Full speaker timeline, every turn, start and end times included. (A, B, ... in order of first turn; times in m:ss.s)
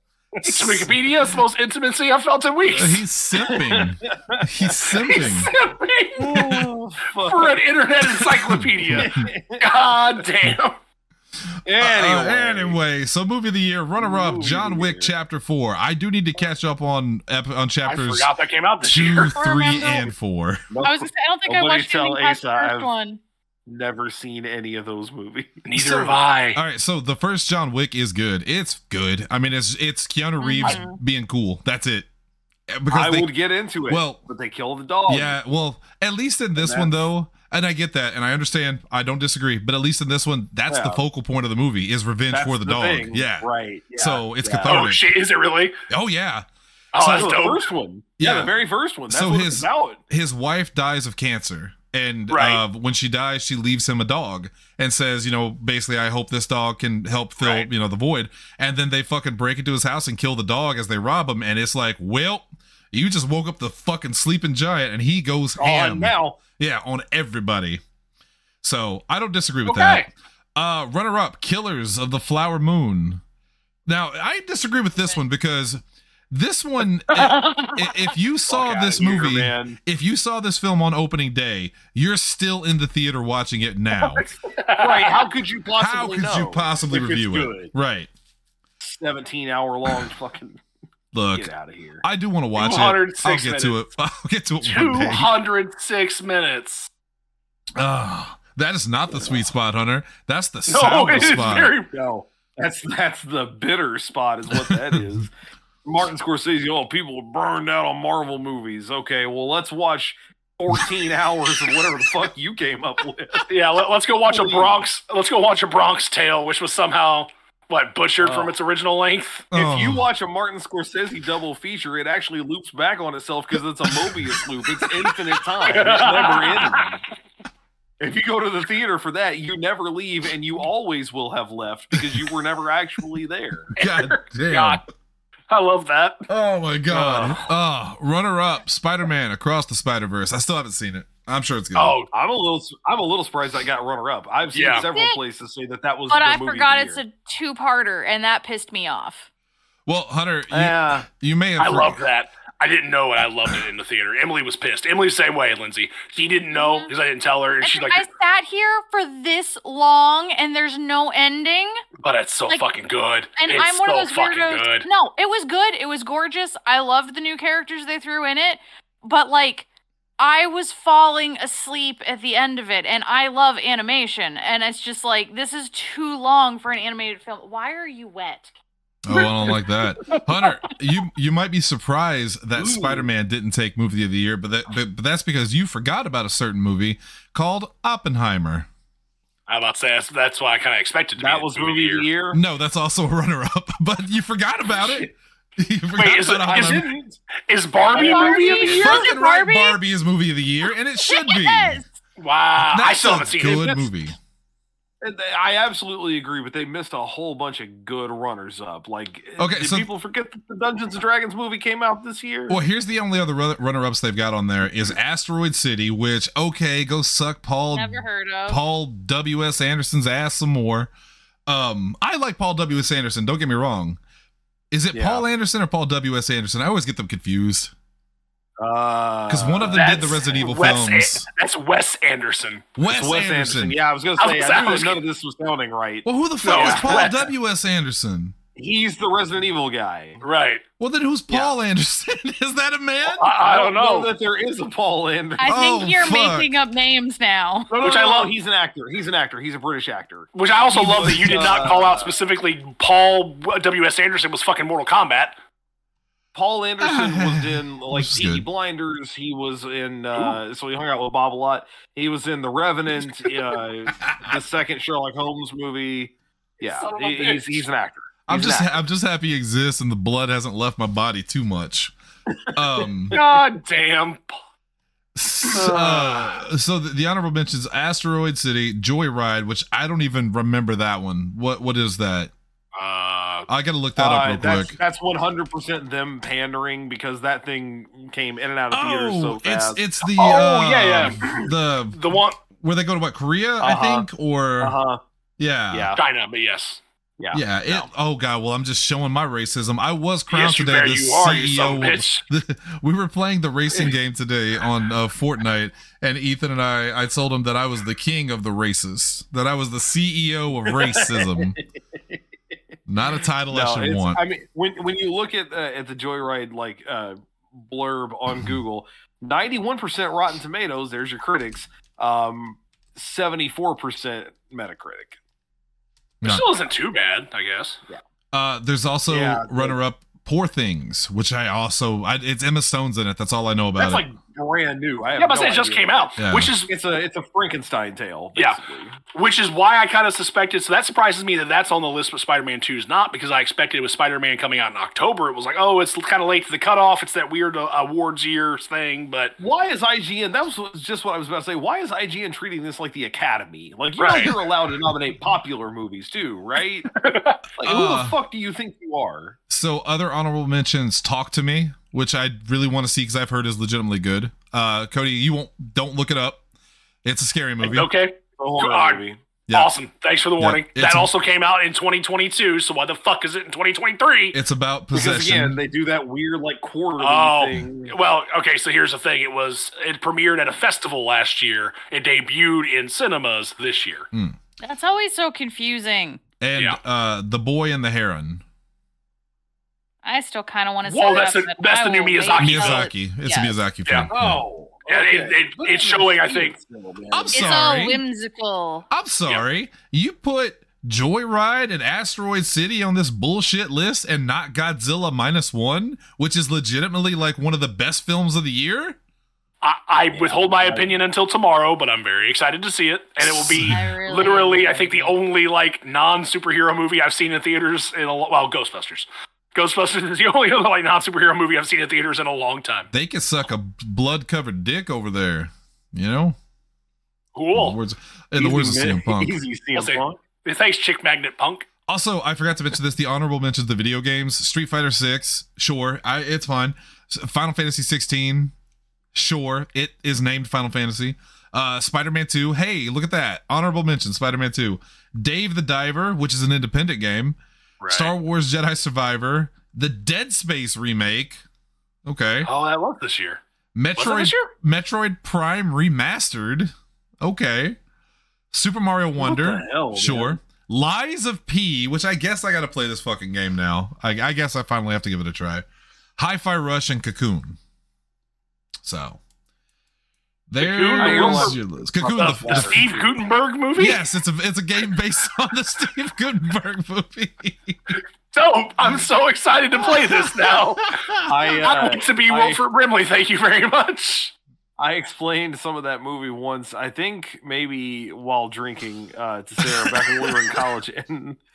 0:00.4-0:00.9 A
0:00.4-0:03.0 B
0:02.7-0:05.5 C
0:03.4-0:04.7 A
0:04.9-0:06.4 B
0:06.2-0:07.6 A
0:06.3-0:06.7 C
0:07.2-0:10.7 B
0:08.2-0:09.2 C
0:08.9-0:09.7 A
0:11.6-0:12.8 A
0:11.8-0:18.3 C
0:14.0-0:15.1 A
0:17.8-0:19.4 B
0:18.8-0:20.6 C
0:19.4-0:20.1 D
0:20.7-0:22.9 A
0:20.8-0:23.2 D
0:23.6-0:25.6 A
0:25.6-0:26.6 B
0:25.7-0:32.1 C
0:30.4-0:31.0 D
0:32.7-0:33.3 C
0:32.9-0:35.4 A
0:33.9-0:34.2 C
0:35.1-0:45.0 C
0:36.6-0:36.9 A
0:40.7-0:41.0 A
0:42.3-0:44.8 A
0:44.6-0:45.7 B
0:45.9-0:47.4 C
0:46.9-0:47.7 B
0:47.1-0:50.0 A
0:48.2-0:48.5 C
0:49.1-1:07.8 C
0:52.3-0:52.6 B
0:57.4-0:57.6 B
1:05.6-1:06.4 A
1:08.6-1:13.2 C
1:09.6-1:10.1 B
1:13.8-1:24.2 C
1:17.1-1:17.8 B
1:18.5-1:19.8 A
1:24.0-1:25.3 B
1:24.8-1:27.7 A
1:25.8-1:28.1 C
1:28.8-1:30.6 A
1:31.1-1:31.5 C
1:31.3-1:32.0 A
1:32.0-1:35.3 C
1:32.6-1:33.8 B
1:34.6-1:36.9 B
1:37.8-1:41.7 C
1:40.7-1:41.9 B
1:41.1-1:45.3 A
1:44.6-1:45.0 C
1:45.8-1:53.5 A
1:53.5-1:59.5 B
1:54.3-1:54.8 A
1:58.2-1:58.5 A
1:59.5-2:00.0 C
1:59.5-2:07.0 A
2:05.6-2:06.9 B
2:08.0-2:13.7 A
2:13.7-2:14.8 C
2:13.8-2:14.8 B
2:15.5-2:16.3 B
2:16.3-2:22.0 C
2:16.9-2:17.5 A
2:21.7-2:22.1 B
2:22.1-2:27.0 A
2:24.5-2:24.9 B
2:24.9-2:25.2 D
2:26.1-2:29.2 D
2:29.8-2:32.0 C
2:30.5-2:31.0 A
2:31.6-2:38.0 B
2:36.5-2:36.9 D
2:37.6-2:41.8 D
2:42.0-2:44.9 B
2:43.4-2:49.7 D
2:50.2-2:58.5 D
2:59.0-3:08.7 C
3:02.6-3:03.1 A
3:09.5-3:12.1 B
3:11.2-3:12.4 A
3:12.3-3:16.9 C
3:14.8-3:15.1 A
3:16.0-3:16.8 B
3:16.5-3:17.2 A
3:17.5-3:19.1 B
3:17.9-3:19.1 A
3:17.9-3:19.8 D
3:18.6-3:21.8 C
3:21.0-3:21.9 D
3:22.2-3:23.9 B
3:22.6-3:24.2 C
3:25.0-3:32.6 A
3:29.4-3:29.9 C
3:32.5-3:40.9 C
3:37.7-3:38.6 D
3:41.5-3:44.0 C
3:44.7-3:47.7 C
3:44.9-3:45.2 A
3:48.6-3:50.5 A
3:49.3-3:51.2 C
3:49.6-3:52.7 B
3:52.8-3:53.8 C
3:52.8-3:57.1 A
3:54.2-3:55.0 B
3:56.0-3:58.3 C
3:56.4-3:57.3 B
3:58.6-4:00.2 A
4:00.2-4:00.6 B
4:00.8-4:03.3 C
4:03.1-4:04.1 B
4:03.4-4:05.5 A
4:05.4-4:07.7 D
4:05.4-4:06.5 C
4:07.7-4:12.1 A
4:07.8-4:08.3 B
4:10.3-4:15.3 B
4:16.3-4:28.8 A
4:16.8-4:18.4 C
4:20.1-4:20.4 B
4:26.6-4:27.6 B
4:28.3-4:31.9 C
4:32.5-4:33.2 C
4:33.1-4:33.4 A
4:33.1-4:34.4 B
4:35.1-4:42.3 C
4:35.5-4:36.2 A
4:35.5-4:36.1 B
4:42.7-4:43.5 B
4:43.5-4:44.8 C
4:44.0-4:49.8 A
4:48.7-4:54.8 C
4:50.2-4:52.4 B
4:53.6-4:54.1 A
4:54.6-4:55.0 A
4:55.4-4:55.9 C
4:55.7-4:56.0 A
4:56.0-4:56.8 B
4:57.2-4:57.9 A
4:57.3-5:11.6 C
5:00.3-5:02.2 B
5:10.7-5:12.2 A
5:12.9-5:14.2 C
5:13.5-5:25.2 A
5:26.2-5:27.8 B
5:28.3-5:34.0 C
5:29.1-5:29.8 A
5:33.8-5:39.0 A
5:35.1-5:36.7 B
5:36.2-5:36.5 C
5:39.1-5:49.3 B
5:49.4-5:56.9 A
5:54.0-5:54.4 B
5:57.0-5:57.4 B
5:57.6-5:59.4 A
5:57.6-5:58.2 C
5:59.5-6:06.4 C
6:07.0-6:07.9 C
6:07.6-6:14.4 B
6:08.4-6:09.2 A
6:10.4-6:11.1 C
6:14.3-6:15.6 C
6:14.9-6:17.9 A
6:17.0-6:24.1 B
6:24.1-6:24.4 C
6:24.6-6:26.2 D
6:26.4-6:28.4 C
6:30.0-6:33.6 D
6:30.8-6:32.9 B
6:32.4-6:34.4 C
6:33.8-6:34.1 B
6:34.1-6:37.5 A
6:34.9-6:36.6 B
6:37.1-6:38.0 C
6:37.3-6:38.8 D
6:38.9-6:49.0 C
6:49.6-7:02.9 B
6:50.1-6:51.0 A
6:53.2-6:53.8 C
6:53.6-6:55.1 D
7:02.9-7:06.4 C
7:07.3-7:07.8 B
7:07.5-7:09.4 C
7:08.4-7:10.2 A
7:09.7-7:11.7 B
7:11.9-7:18.5 C
7:19.1-7:27.4 C
7:27.8-7:28.1 B
7:27.9-7:31.4 C
7:32.0-7:32.5 C
7:32.4-7:33.4 B
7:33.7-7:37.8 C
7:34.0-7:34.5 B
7:38.5-7:45.6 C
7:39.2-7:40.4 A
7:46.2-7:47.6 C
7:48.8-7:49.2 C
7:50.5-7:52.8 C
7:50.6-7:51.6 B
7:51.0-7:53.0 A
7:52.1-7:54.0 B
7:53.8-7:57.9 C
7:58.3-8:00.9 B
8:00.9-8:01.2 C
8:01.2-8:02.6 A
8:01.5-8:04.3 B
8:04.8-8:11.4 A
8:09.8-8:10.2 C